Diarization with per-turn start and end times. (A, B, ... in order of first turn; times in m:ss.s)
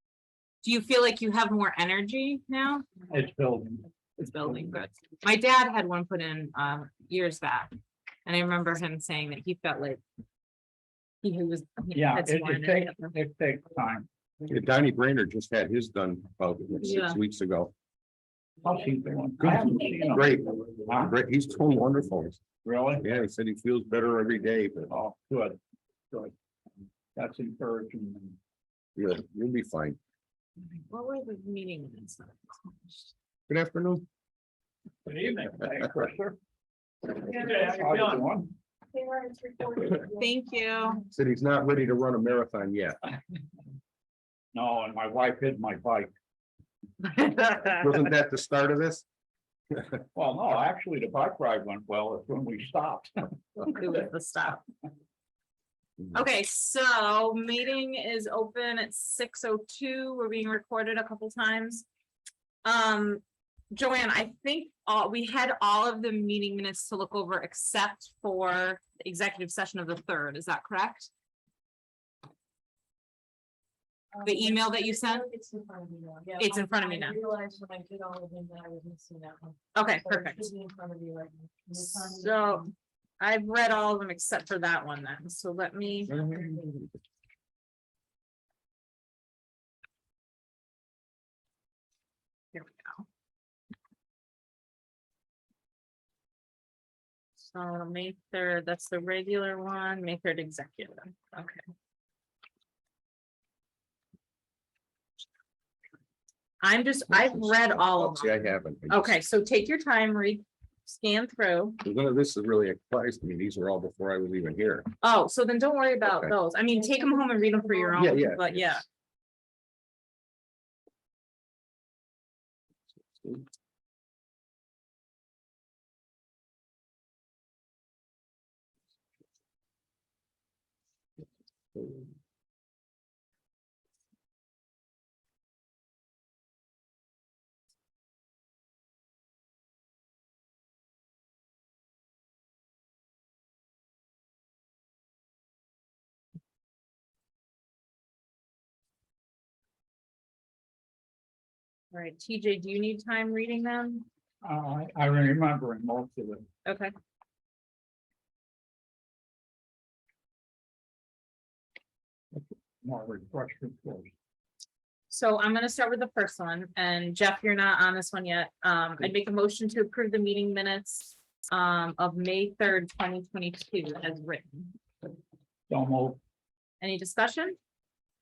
0:00.6-0:02.8 A
0:03.1-0:03.9 B
0:04.2-0:07.7 A
0:08.3-0:10.0 A
0:11.2-0:13.1 A
0:11.9-0:14.1 B
0:14.5-0:17.7 C
0:16.8-0:17.2 A
0:18.6-0:21.1 B
0:19.4-0:22.4 C
0:22.6-0:23.2 B
0:23.0-0:25.0 C
0:24.9-0:25.6 B
0:27.2-0:28.4 B
0:29.0-0:30.0 C
0:30.7-0:33.1 A
0:33.5-0:34.0 C
0:35.1-0:36.4 B
0:37.1-0:38.5 B
0:37.3-0:38.0 D
0:38.9-0:41.1 D
0:40.2-0:41.0 A
0:41.1-0:43.0 C
0:44.5-0:46.1 B
0:47.0-0:47.8 A
0:47.6-0:49.0 C
0:50.2-0:53.7 B
0:53.6-0:54.6 A
0:56.1-1:01.9 A
1:02.6-1:11.1 A
1:14.2-1:22.6 D
1:14.2-1:15.2 A
1:16.4-1:17.2 A
1:19.7-1:20.5 A
1:21.8-1:26.2 A
1:26.0-1:26.6 D
1:26.1-1:26.9 C
1:32.5-1:33.1 A
1:37.4-1:41.6 A
1:46.6-1:51.8 A
1:47.1-1:49.2 C
1:51.8-1:54.9 C
1:55.0-1:58.8 A
1:56.0-1:56.4 C
1:58.0-1:58.6 C
2:31.9-2:34.1 A
2:34.4-2:36.4 B
2:36.6-2:36.9 A
2:42.3-2:44.1 B
2:45.1-2:54.8 A
2:55.7-2:56.2 B
2:56.8-2:57.6 A